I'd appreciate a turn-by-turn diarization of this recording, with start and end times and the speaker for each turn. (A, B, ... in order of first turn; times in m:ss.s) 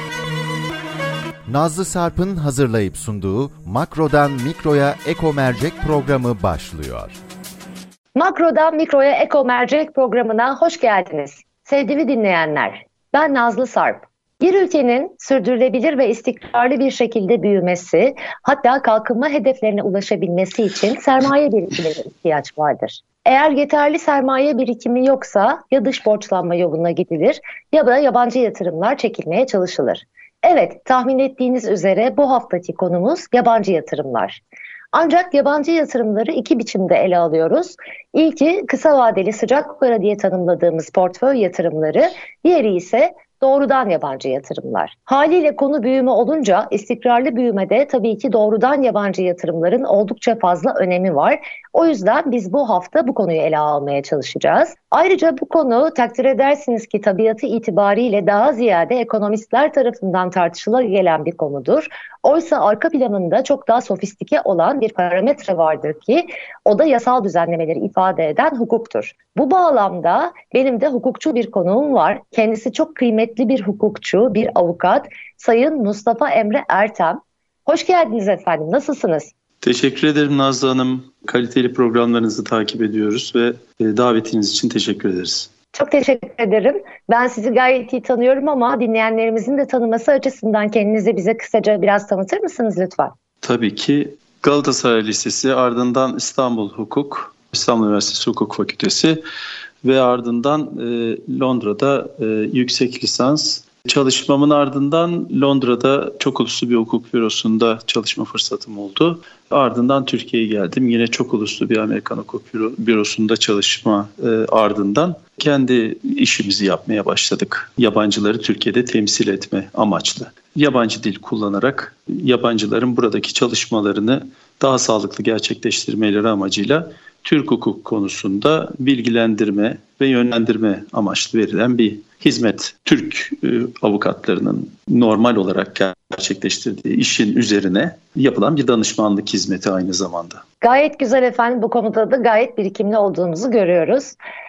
0:01.5-0:07.2 A
0:08.1-0:34.4 B
0:34.9-1:19.3 B
1:19.6-1:25.5 C
1:25.7-1:33.1 B
1:33.4-1:39.2 C
1:39.8-2:20.4 C
2:20.6-2:24.2 B